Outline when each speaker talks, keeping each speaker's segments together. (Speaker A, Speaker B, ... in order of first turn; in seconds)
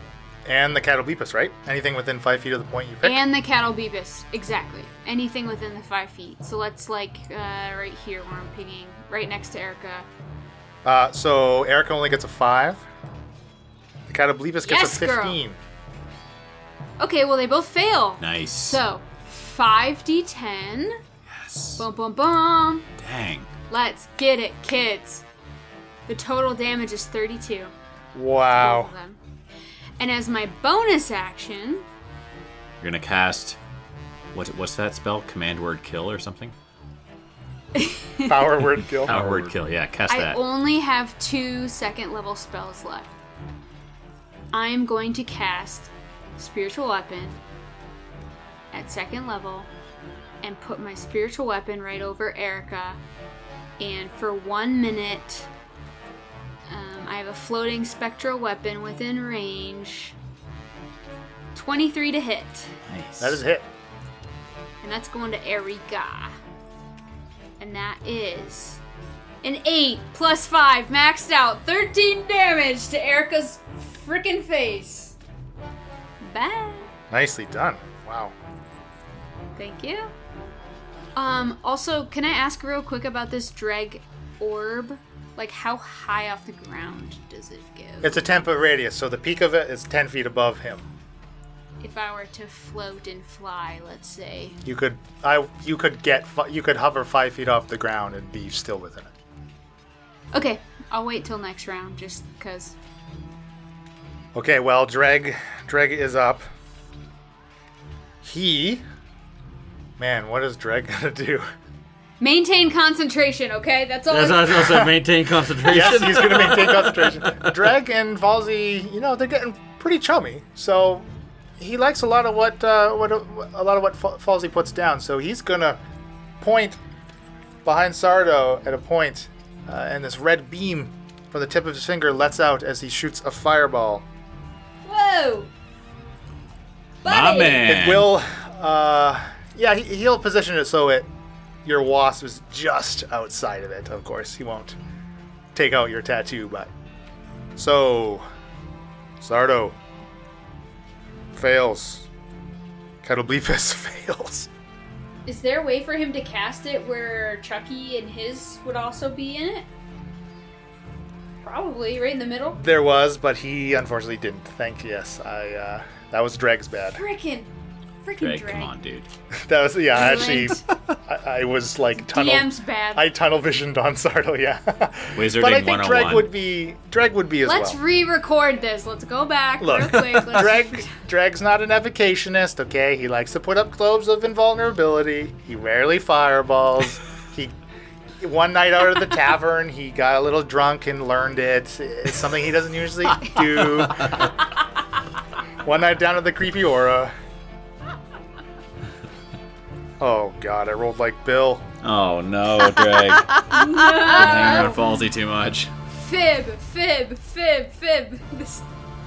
Speaker A: 0.4-3.2, 10.8-12.9, 14.1-15.6, 28.1-28.9, 38.2-39.1, 63.2-63.7, 77.1-78.3, 88.0-90.9, 94.7-99.1, 104.3-106.5, 108.2-108.8, 110.0-111.5, 115.6-121.1, 121.6-125.8, 126.4-126.8, 127.7-134.1, 137.6-141.1, 141.7-144.8, 145.5-146.7, 147.6-148.2, 149.2-149.8, 151.3-152.1, 153.0-154.5, 162.6-167.0, 169.4-177.8, 179.6-187.6, 188.2-194.3, 195.6-197.1, 200.0-201.7
Speaker B: 3.0-10.1, 14.6-15.4, 17.0-21.0, 21.8-22.9, 23.7-25.2, 26.1-27.7, 28.5-29.2, 30.0-31.9, 37.8-38.5, 40.1-43.1, 44.5-47.4, 48.7-49.7, 50.4-53.0, 53.8-55.5, 56.7-60.2, 61.5-62.7, 64.8-66.3, 67.6-68.8, 69.4-75.2, 76.2-76.9, 79.6-80.1, 81.2-88.3, 91.8-94.6, 100.3-102.8, 112.2-114.7, 134.8-135.5, 137.0-137.7, 155.3-159.7, 161.4-162.6, 166.9-167.5, 168.0-168.7, 169.9-170.6, 172.0-173.1, 177.4-181.0, 203.4-204.9, 205.9-208.7
Speaker C: 18.2-18.8, 21.3-21.8, 23.0-23.5, 32.8-33.6, 34.3-36.5, 39.0-40.4, 62.9-63.4, 137.1-138.1, 168.2-169.1, 175.1-176.3, 201.8-205.7
Speaker D: 39.1-39.5, 114.1-117.5, 179.9-180.2, 193.8-194.3